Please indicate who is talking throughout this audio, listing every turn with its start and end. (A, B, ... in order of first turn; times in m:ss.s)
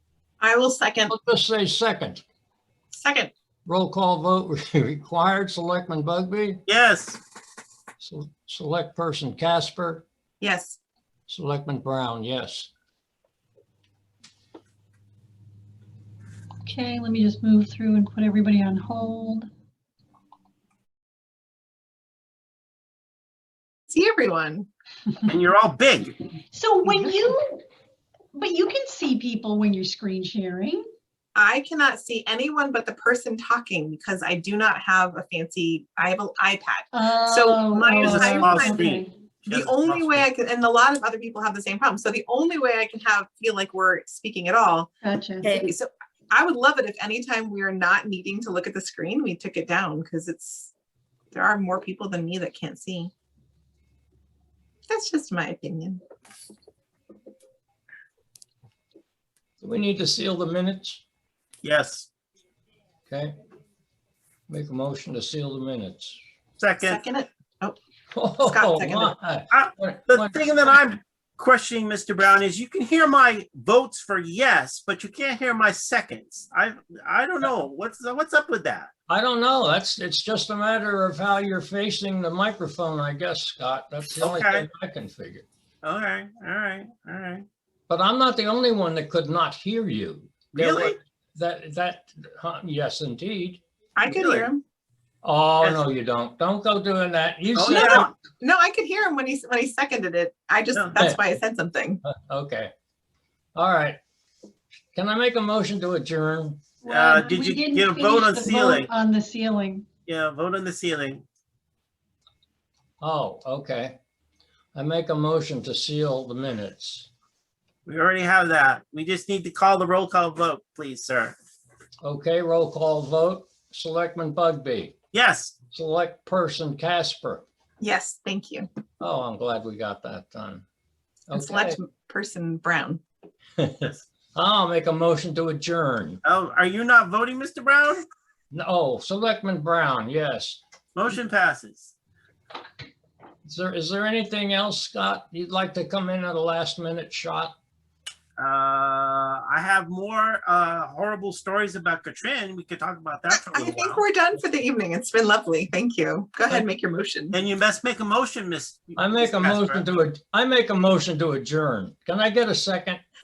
0:00.4-0:01.1 A
0:01.1-0:02.2 B
0:03.0-0:03.3 A
0:03.6-0:06.6 B
0:06.7-0:07.2 C
0:08.0-0:10.0 B
0:10.4-0:10.8 A
0:11.3-0:12.7 B
0:16.6-0:19.5 D
0:23.9-0:24.7 A
0:25.2-0:26.1 C
0:26.5-0:27.6 D
0:28.3-0:30.8 D
0:31.3-0:44.9 A
0:36.9-0:39.1 D
0:38.0-0:40.2 C
0:45.0-0:45.7 D
0:45.4-0:50.7 A
0:51.3-0:53.1 A
0:54.9-0:56.0 A
0:59.6-1:01.0 B
1:01.6-1:02.1 C
1:03.1-1:03.3 B
1:04.5-1:06.2 B
1:06.6-1:07.0 C
1:06.8-1:07.8 A
1:08.1-1:10.6 B
1:08.4-1:09.1 A
1:09.5-1:18.9 C
1:19.1-1:25.4 B
1:24.2-1:24.7 C
1:25.8-1:27.4 C
1:27.9-1:33.6 B
1:30.6-1:31.0 C
1:34.0-1:34.6 A
1:34.1-1:34.5 C
1:35.2-1:38.1 B
1:37.5-1:38.1 C
1:37.7-1:42.0 A
1:42.0-1:42.7 B
1:43.5-1:44.0 B
1:44.9-1:46.6 B
1:46.8-1:49.8 D
1:46.9-1:48.9 C
1:50.0-1:51.2 C
1:53.0-1:54.0 B
1:54.7-1:57.1 B
1:57.8-2:01.4 C
2:02.0-2:05.0 B
2:05.1-2:05.6 C
2:05.7-2:07.4 B
2:07.8-2:08.7 A
2:09.0-2:10.6 B
2:11.3-2:11.8 B
2:11.3-2:13.0 A
2:13.6-2:16.2 B
2:16.2-2:18.0 C
2:18.5-2:20.6 B
2:20.9-2:21.9 C
2:23.4-2:27.5 B
2:28.4-2:34.0 C
2:33.3-2:37.4 A
2:37.3-2:39.8 C
2:39.0-2:43.0 B